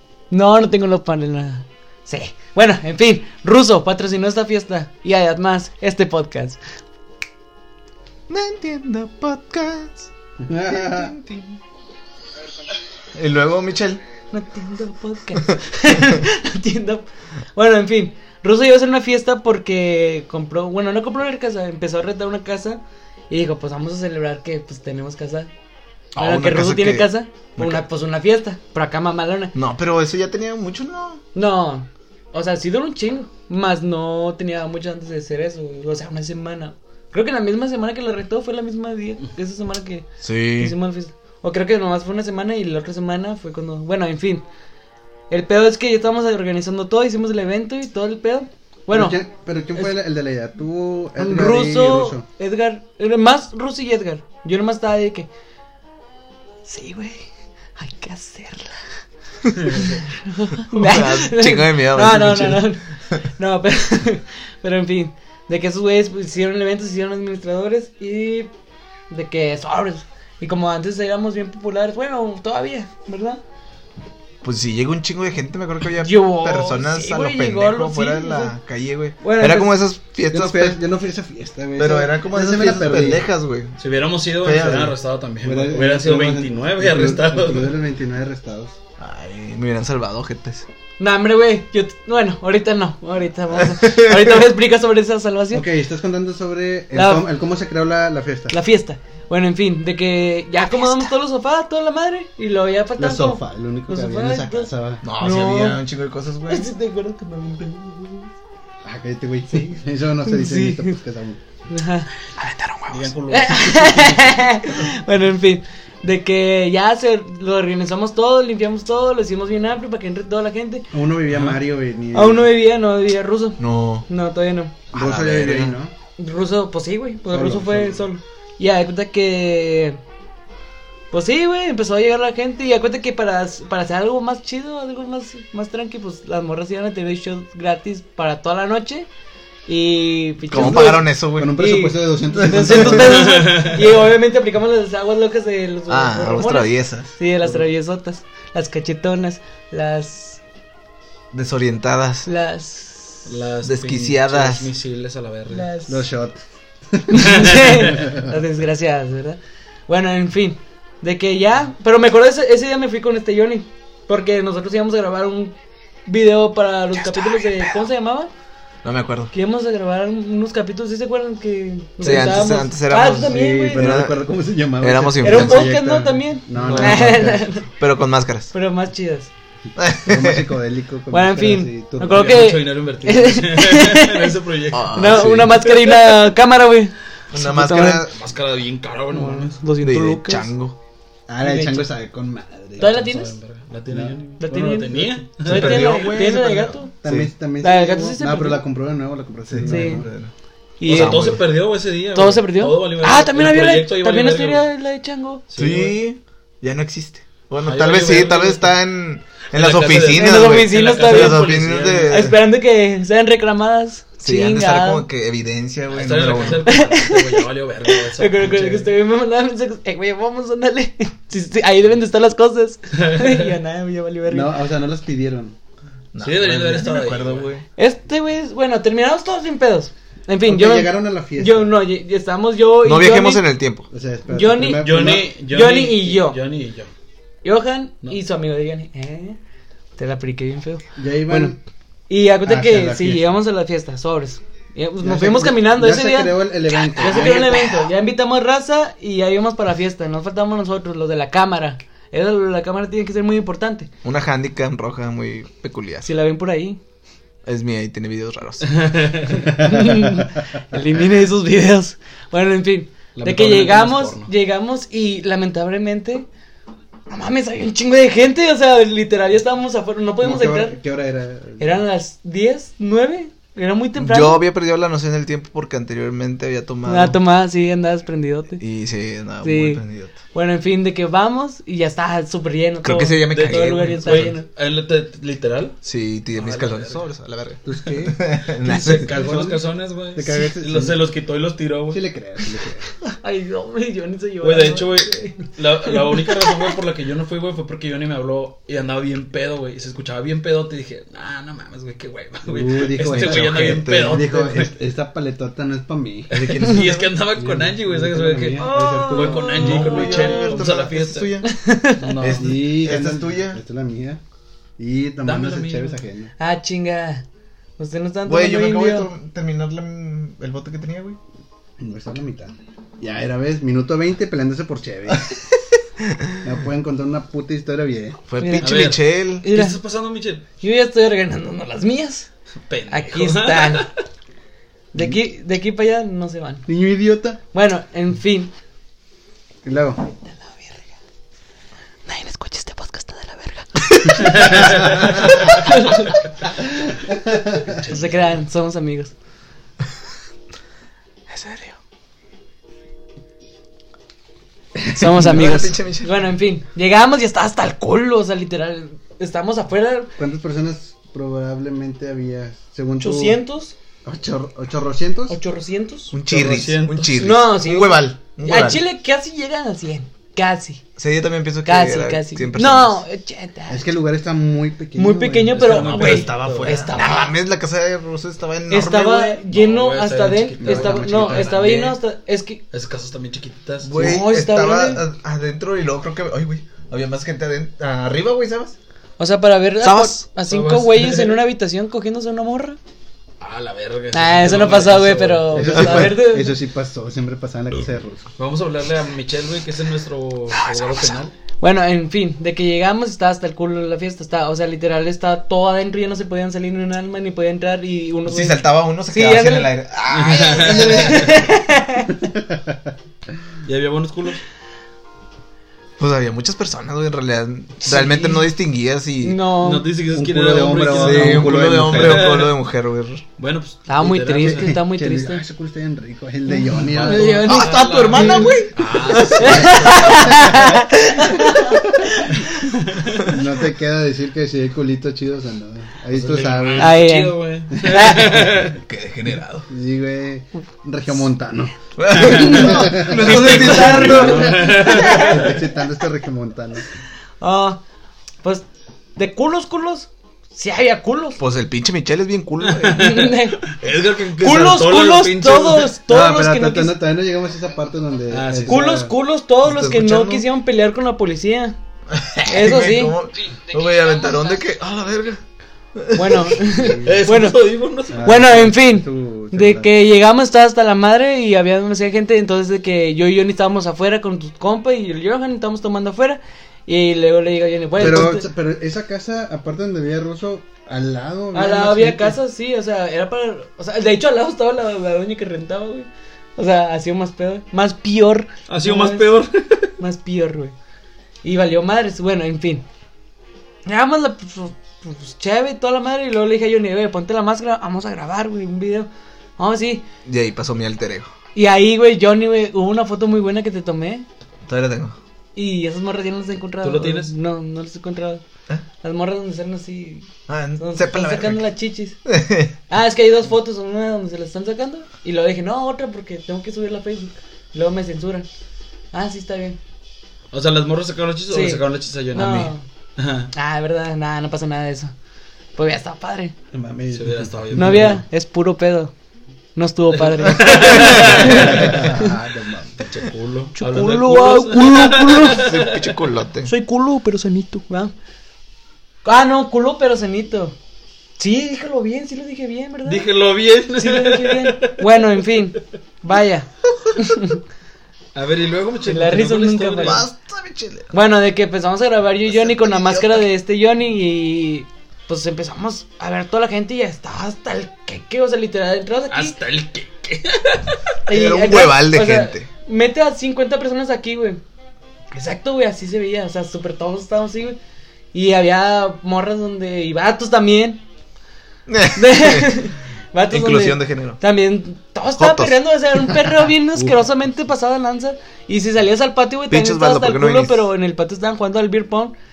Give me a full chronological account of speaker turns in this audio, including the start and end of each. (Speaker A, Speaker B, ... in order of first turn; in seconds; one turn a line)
Speaker A: 0.3-6.6
Speaker B: 8.3-11.6
Speaker C: 10.4-11.1
Speaker B: 13.1-14.0
Speaker A: 14.3-25.5
Speaker B: 26.1-27.8
Speaker A: 26.2-29.5
Speaker B: 29.5-31.2
Speaker A: 31.3-44.4
Speaker B: 40.2-40.7
Speaker A: 45.3-49.2
Speaker C: 48.9-52.2
Speaker A: 51.2-55.3
Speaker A: 56.6-58.8
Speaker A: 59.7-62.8
Speaker B: 60.7-63.2
Speaker A: 63.4-68.5
Speaker A: 69.1-73.4
Speaker B: 74.4-80.8
Speaker A: 76.0-78.5
Speaker A: 79.2-79.8
Speaker C: 80.3-83.2
Speaker B: 81.8-83.7
Speaker D: 83.8-87.7
Speaker B: 84.4-84.9
Speaker C: 85.4-88.7
Speaker B: 89.0-90.7
Speaker A: 91.0-95.6
Speaker B: 93.6-94.4
Speaker C: 95.5-98.5
Speaker A: 96.9-97.3
Speaker A: 98.5-105.8
Speaker C: 103.0-105.0
Speaker B: 105.0-106.7
Speaker A: 106.5-108.3
Speaker C: 108.8-111.4
Speaker A: 110.2-111.0
Speaker A: 111.7-112.1
Speaker B: 112.4-113.1
Speaker D: 112.9-114.4
Speaker A: 113.3-120.9
Speaker C: 120.9-122.5
Speaker A: 122.1-124.7
Speaker B: 123.6-124.1
Speaker B: 124.9-125.8
Speaker C: 124.9-125.9
Speaker A: 126.2-130.0
Speaker C: 127.3-128.0
Speaker A: 131.1-139.1
Speaker A: 139.7-150.4
Speaker B: 140.5-141.7
Speaker C: 140.5-143.3
Speaker B: 142.5-143.1
Speaker D: 142.9-144.0
Speaker B: 145.9-147.1
Speaker B: 151.3-152.3
Speaker A: 152.2-153.3
Speaker D: 153.2-155.7
Speaker B: 153.6-154.7
Speaker A: 155.5-156.1
Speaker C: 155.9-156.4
Speaker C: 156.9-158.3
Speaker A: 157.1-165.5
Speaker D: 157.2-157.9
Speaker A: 166.1-168.3
Speaker B: 166.9-167.8
Speaker B: 168.8-169.3
Speaker A: 169.3-173.9
Speaker B: 172.0-175.7
Speaker C: 173.1-177.5
Speaker A: 175.2-177.7
Speaker D: 176.6-176.9
Speaker B: 176.6-178.5
Speaker A: 178.5-179.3
Speaker B: 179.8-180.5
Speaker C: 180.0-182.5
Speaker A: 181.1-184.4
Speaker D: 182.1-186.1
Speaker B: 184.7-185.6
Speaker A: 184.9-188.0
Speaker C: 185.2-185.4
Speaker B: 187.3-188.2
Speaker D: 187.8-189.6
Speaker A: 189.1-190.5
Speaker B: 189.8-190.8
Speaker C: 191.3-193.1
Speaker A: 191.4-191.9
Speaker A: 192.8-193.3
Speaker D: 192.8-196.1
Speaker C: 193.9-194.2
Speaker A: 194.4-196.9
Speaker B: 195.4-197.3
Speaker C: 197.0-200.1
Speaker A: 197.6-198.6
Speaker B: 199.5-200.3
Speaker A: 199.7-200.0
Speaker A: 200.8-201.4
Speaker B: 200.8-201.4
Speaker D: 200.8-204.6
Speaker A: 202.1-205.4
Speaker D: 205.5-205.9
Speaker B: 205.6-212.4
Speaker D: 207.6-208.8
Speaker D: 209.5-212.3
Speaker A: 210.1-211.5
Speaker A: 212.1-215.1
Speaker B: 214.2-216.8
Speaker D: 215.9-218.9
Speaker A: 216.6-224.5
Speaker D: 222.9-223.5
Speaker C: 224.3-225.6
Speaker B: 226.1-227.6
Speaker D: 226.2-227.5
Speaker A: 227.8-233.4
Speaker C: 230.4-231.8
Speaker B: 232.8-233.9
Speaker C: 233.9-235.3
Speaker A: 234.3-234.9
Speaker D: 234.8-236.9
Speaker A: 235.5-236.4
Speaker A: 237.4-239.4
Speaker A: 240.0-241.6
Speaker C: 240.9-241.6
Speaker A: 242.1-253.9
Speaker C: 242.4-243.3
Speaker C: 245.0-247.9
Speaker B: 254.0-256.1
Speaker A: 256.0-256.8
Speaker B: 257.4-259.2
Speaker D: 258.6-259.5
Speaker A: 259.4-266.3
Speaker C: 259.6-260.3
Speaker D: 263.1-264.3
Speaker A: 267.1-270.8
Speaker C: 270.2-271.8
Speaker A: 271.6-274.4
Speaker B: 273.9-277.2
Speaker A: 276.8-278.6
Speaker B: 278.6-280.1
Speaker A: 279.4-284.4
Speaker B: 282.8-284.4
Speaker D: 283.3-285.8
Speaker B: 285.8-289.1
Speaker D: 286.3-287.0
Speaker C: 287.6-291.1
Speaker D: 288.6-292.0
Speaker C: 291.9-292.9
Speaker A: 293.1-296.7
Speaker D: 294.4-304.7
Speaker C: 302.4-310.2
Speaker B: 303.0-304.2
Speaker D: 306.3-311.4
Speaker B: 306.5-307.1
Speaker A: 308.6-310.6
Speaker B: 309.5-311.5
Speaker A: 311.4-312.1
Speaker D: 312.0-312.6
Speaker B: 312.2-313.6
Speaker C: 312.3-314.2
Speaker C: 314.8-316.3
Speaker D: 315.2-316.0
Speaker A: 316.4-317.2
Speaker A: 317.8-319.1
Speaker B: 318.2-321.2
Speaker C: 321.8-325.3
Speaker C: 326.4-328.2
Speaker B: 328.3-329.5
Speaker A: 328.4-329.8
Speaker D: 328.6-330.4
Speaker A: 330.6-332.3
Speaker D: 332.7-334.0
Speaker A: 332.9-333.9
Speaker A: 334.9-336.6
Speaker C: 336.6-337.4
Speaker A: 337.5-338.5
Speaker C: 339.6-340.0
Speaker A: 340.1-340.8
Speaker A: 342.1-346.1
Speaker B: 344.0-344.6
Speaker D: 344.3-344.8
Speaker C: 347.2-347.7
Speaker D: 347.7-348.2
Speaker A: 347.8-349.1
Speaker B: 351.3-351.7
Speaker A: 354.9-360.1
Speaker B: 355.0-356.2
Speaker C: 360.2-363.4
Speaker A: 363.0-363.7
Speaker C: 364.0-365.4
Speaker A: 365.3-366.1
Speaker B: 366.1-368.8
Speaker D: 366.3-367.2
Speaker A: 367.1-370.8
Speaker B: 370.9-373.0
Speaker A: 371.6-373.8
Speaker C: 373.7-375.9
Speaker A: 374.9-377.3
Speaker D: 375.5-376.8
Speaker B: 375.8-379.4
Speaker A: 378.7-382.6
Speaker D: 379.5-382.0
Speaker C: 380.6-381.8
Speaker D: 382.7-384.0
Speaker B: 383.8-388.8
Speaker A: 383.9-385.0
Speaker A: 389.2-392.8
Speaker B: 389.8-390.2
Speaker D: 390.4-391.4
Speaker D: 393.4-396.1
Speaker A: 394.1-396.5
Speaker C: 395.5-398.2
Speaker D: 398.4-401.3
Speaker B: 400.6-401.1
Speaker A: 401.6-409.7
Speaker B: 408.2-411.4
Speaker D: 410.1-411.3
Speaker C: 410.5-411.2
Speaker A: 410.8-412.1
Speaker C: 412.1-412.9
Speaker D: 413.6-414.4
Speaker B: 416.0-419.4
Speaker A: 417.8-418.5
Speaker A: 419.2-419.9
Speaker D: 419.6-422.5
Speaker C: 420.1-422.4
Speaker B: 420.9-423.2
Speaker D: 423.4-424.8
Speaker A: 423.9-425.4
Speaker C: 424.4-427.5
Speaker A: 426.5-428.4
Speaker D: 426.7-430.1
Speaker B: 427.4-430.7
Speaker C: 428.1-428.5
Speaker A: 429.4-432.8
Speaker C: 429.4-430.8
Speaker C: 431.6-432.2
Speaker D: 432.9-433.2
Speaker C: 433.2-437.0
Speaker D: 436.1-438.8
Speaker A: 436.8-438.4
Speaker B: 438.3-439.7
Speaker C: 439.7-446.8
Speaker B: 442.0-444.7
Speaker A: 442.1-445.4
Speaker D: 442.4-442.7
Speaker D: 443.2-445.6
Speaker A: 447.4-447.8
Speaker A: 448.4-451.4
Speaker B: 451.4-453.2
Speaker D: 452.6-455.9
Speaker A: 452.9-453.8
Speaker A: 454.4-457.0
Speaker C: 456.1-459.1
Speaker D: 458.3-458.8
Speaker A: 458.7-461.8
Speaker B: 459.6-460.4
Speaker B: 462.1-465.4
Speaker A: 462.4-463.2
Speaker B: 466.0-466.6
Speaker A: 466.1-467.6
Speaker C: 466.6-467.2
Speaker D: 467.0-468.3
Speaker C: 468.1-469.9
Speaker A: 468.2-478.4
Speaker C: 478.0-482.4
Speaker A: 481.5-489.3
Speaker D: 488.7-489.9
Speaker A: 490.0-490.7
Speaker A: 491.4-492.9
Speaker A: 493.9-500.0
Speaker B: 500.2-501.3
Speaker A: 501.5-504.2
Speaker B: 504.7-505.2
Speaker A: 505.5-508.4
Speaker D: 506.8-507.3
Speaker A: 509.0-512.2
Speaker B: 510.5-511.6
Speaker B: 512.2-512.7
Speaker A: 512.9-518.5
Speaker A: 519.1-519.8
Speaker D: 520.5-523.5
Speaker A: 521.5-522.8
Speaker B: 522.4-522.7
Speaker A: 523.5-525.1
Speaker A: 525.8-526.5
Speaker C: 526.7-528.1
Speaker D: 527.1-528.2
Speaker A: 527.7-529.1
Speaker A: 529.7-532.3
Speaker D: 530.1-532.1
Speaker B: 530.8-531.6
Speaker C: 531.4-533.1
Speaker D: 533.0-536.1
Speaker A: 533.7-535.7
Speaker B: 535.6-536.7
Speaker A: 536.6-538.1
Speaker A: 539.2-540.8
Speaker A: 541.4-543.3
Speaker D: 543.0-545.4
Speaker A: 544.0-547.6
Speaker D: 548.3-550.2
Speaker A: 549.0-550.2
Speaker B: 550.0-551.1
Speaker A: 551.1-559.6
Speaker B: 552.5-553.5
Speaker D: 559.3-561.0
Speaker A: 561.2-564.6
Speaker B: 561.3-562.7
Speaker A: 565.3-567.8
Speaker A: 568.3-571.0
Speaker B: 571.9-572.8
Speaker A: 572.1-582.3
Speaker B: 573.5-574.4
Speaker B: 575.4-575.8
Speaker B: 579.7-580.9